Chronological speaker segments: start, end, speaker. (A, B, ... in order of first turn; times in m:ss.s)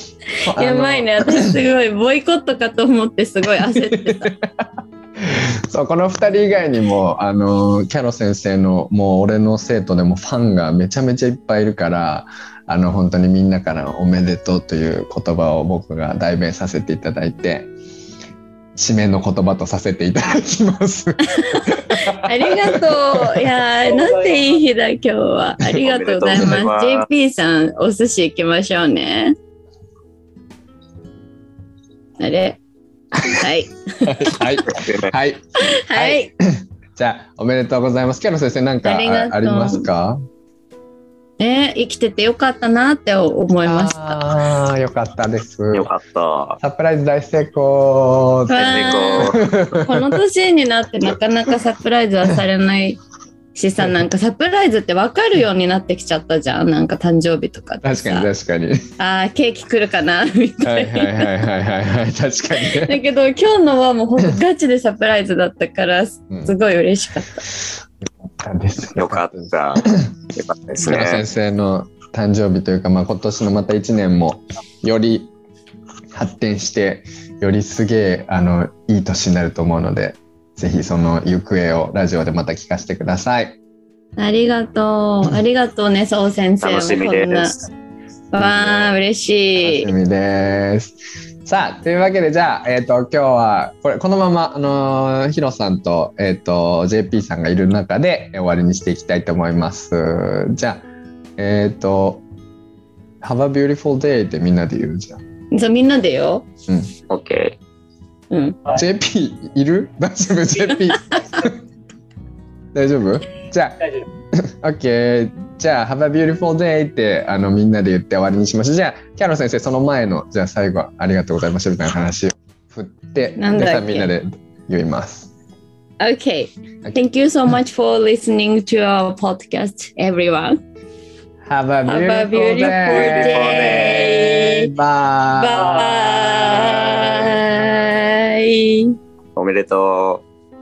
0:00.4-0:01.6 A
0:00.5-0:04.3 B
0:03.7-0:17.7 A
0:18.8-0:23.5 A
0:21.3-0:29.4 B
0:23.8-0:24.6 C
0:25.7-0:27.1 D
0:32.2-0:32.6 B
0:33.2-0:34.6 B
0:34.0-0:40.2 A
0:34.7-0:35.1 D
0:35.6-0:36.3 B
0:38.8-0:39.9 B
0:41.4-0:44.2 B
0:43.6-0:45.9 A
0:45.7-0:46.6 D
0:46.6-0:50.2 A
0:48.5-0:53.0 B
0:48.6-0:49.4 D
0:53.6-0:58.3 B
0:57.8-0:58.9 A
0:59.0-1:01.3 B
1:00.6-1:03.0 A
1:02.6-1:07.4 B
1:08.4-1:10.1 A
1:08.9-1:11.2 D
1:10.8-1:15.3 A
1:16.1-1:23.6 A
1:24.2-1:27.6 B
1:26.6-1:27.7 D
1:28.3-1:29.9 B
1:28.4-1:28.9 A
1:29.6-1:40.8 A
1:41.4-1:42.2 A
1:43.2-1:45.2 A
1:45.5-1:46.5 B
1:47.1-1:47.6 D
1:48.3-1:48.6 B
1:48.7-1:51.6 A
1:52.7-1:53.8 A
1:53.8-1:54.1 C
1:54.3-2:05.3 A
2:03.4-2:04.1 B
2:06.0-2:10.6 B
2:11.4-2:15.8 A
2:11.9-2:14.7 B
2:12.6-2:14.4 D
2:15.3-2:19.0 B
2:15.5-2:17.2 C
2:19.4-2:20.2 D